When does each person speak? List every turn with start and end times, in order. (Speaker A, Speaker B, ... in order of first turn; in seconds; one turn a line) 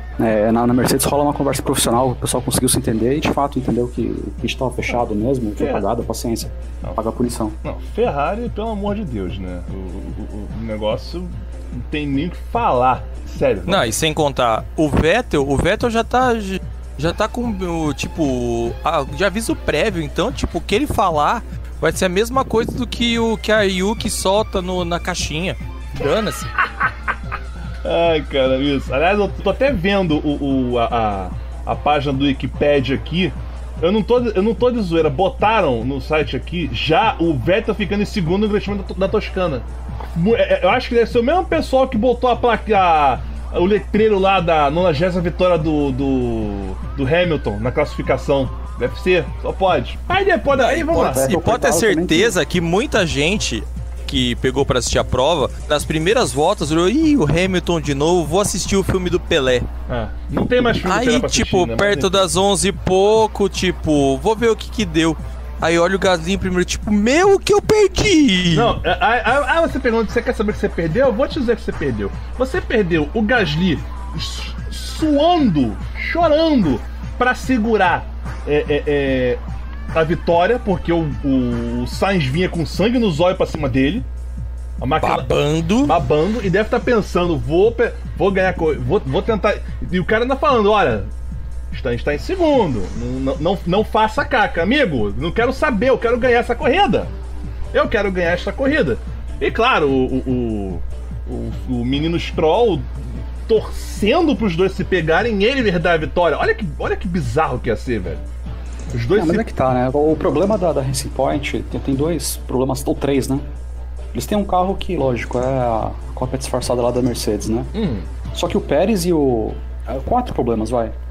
Speaker A: 0.2-7.6
Speaker B: 5.6-5.9
Speaker B: 7.6-13.9
Speaker C: 13.7-26.5
Speaker B: 27.8-51.3
Speaker C: 50.5-59.7
Speaker A: 51.0-52.4
Speaker B: 59.9-62.3
Speaker C: 60.8-68.8
Speaker B: 68.5-79.4
Speaker B: 79.9-84.1
Speaker B: 84.8-91.1
Speaker C: 85.0-85.9
Speaker B: 91.7-97.1
Speaker B: 97.7-108.2
Speaker B: 108.9-109.5
Speaker A: 109.1-113.5
Speaker A: 114.1-117.7
Speaker B: 117.7-118.1
Speaker A: 118.3-121.0